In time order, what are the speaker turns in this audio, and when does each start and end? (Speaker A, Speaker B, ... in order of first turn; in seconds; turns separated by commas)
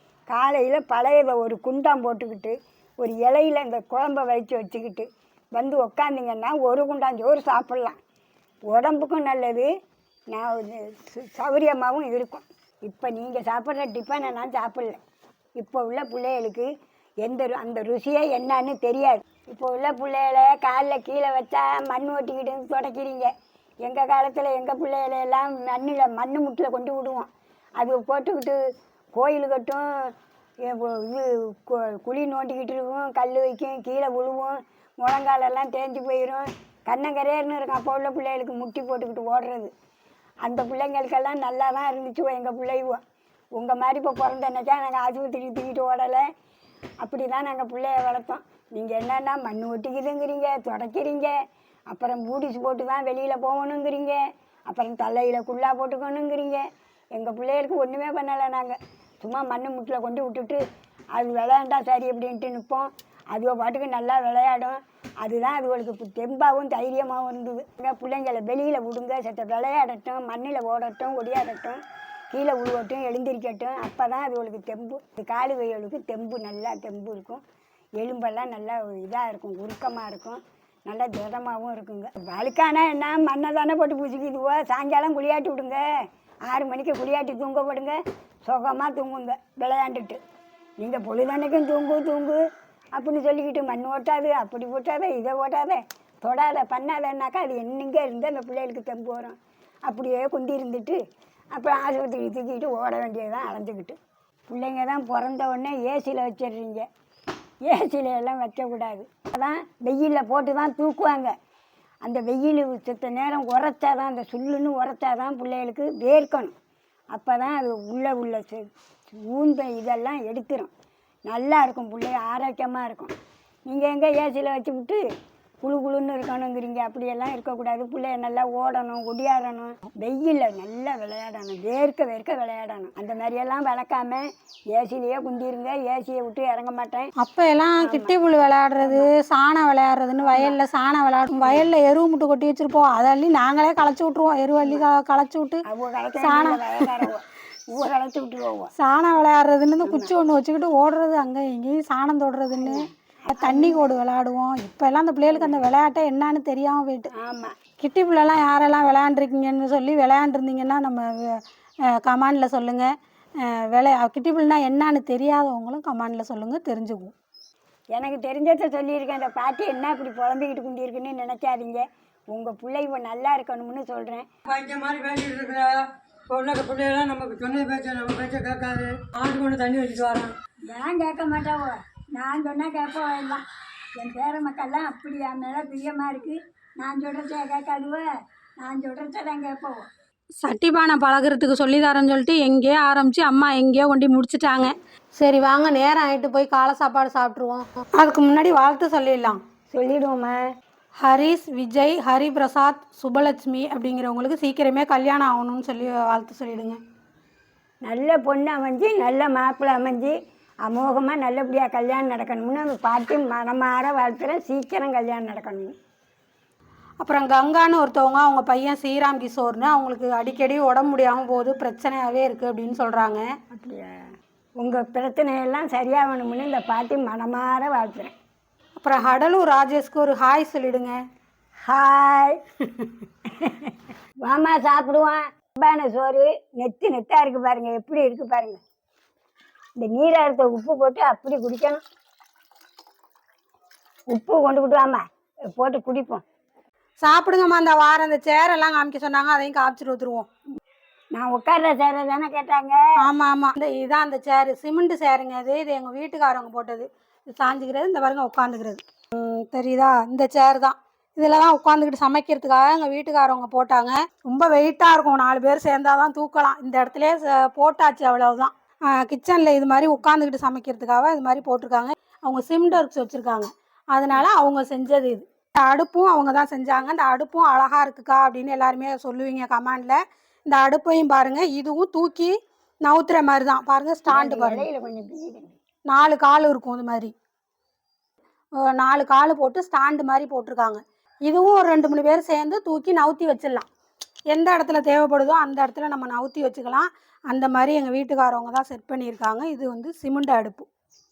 Speaker A: 0.3-8.0, Speaker A: 8.7-9.7, Speaker A: 10.3-15.0, Speaker A: 15.6-16.7, Speaker A: 17.2-23.3, Speaker A: 23.8-27.3, Speaker A: 27.8-28.6, Speaker A: 29.1-29.8, Speaker A: 30.6-39.7, Speaker A: 40.4-43.0, Speaker A: 43.6-46.2, Speaker A: 47.0-51.3, Speaker A: 51.9-56.6, Speaker A: 57.1-60.6, Speaker A: 61.1-71.8, Speaker A: 72.3-77.4, Speaker A: 78.0-85.8, Speaker A: 86.5-90.2, Speaker A: 90.8-92.4, Speaker A: 93.0-99.3, Speaker A: 99.9-101.0, Speaker A: 101.5-104.0, Speaker A: 104.5-106.8, Speaker A: 107.7-111.3, Speaker A: 112.0-116.5, Speaker A: 117.1-120.7, Speaker A: 121.3-123.1, Speaker A: 123.7-125.0, Speaker A: 125.6-137.1, Speaker B: 137.2-145.6, Speaker A: 137.8-138.1, Speaker A: 138.8-139.1, Speaker A: 140.2-140.6, Speaker A: 145.7-147.2, Speaker B: 146.2-147.0, Speaker A: 147.7-148.7, Speaker B: 148.8-152.8, Speaker A: 149.8-150.1, Speaker A: 152.6-153.9, Speaker B: 153.4-157.1, Speaker A: 155.3-155.6, Speaker A: 157.1-157.5, Speaker B: 157.8-162.9, Speaker B: 163.4-167.1, Speaker A: 167.9-174.3, Speaker C: 174.5-180.3, Speaker A: 180.7-183.4, Speaker A: 183.9-188.1, Speaker A: 188.6-189.9, Speaker B: 190.4-199.4, Speaker A: 199.7-200.4, Speaker B: 201.0-206.8, Speaker A: 207.8-210.1, Speaker A: 210.6-215.7, Speaker B: 217.0-223.2, Speaker A: 223.5-224.0, Speaker A: 224.6-228.1, Speaker B: 228.8-231.0, Speaker A: 231.7-232.9, Speaker A: 233.4-233.7, Speaker A: 234.2-238.6, Speaker A: 239.8-241.8, Speaker A: 244.1-245.0, Speaker A: 245.6-246.2, Speaker B: 247.0-250.3, Speaker A: 251.1-252.8, Speaker B: 253.0-284.7, Speaker A: 284.1-285.5, Speaker B: 285.9-287.1, Speaker B: 288.6-293.6, Speaker B: 294.3-300.7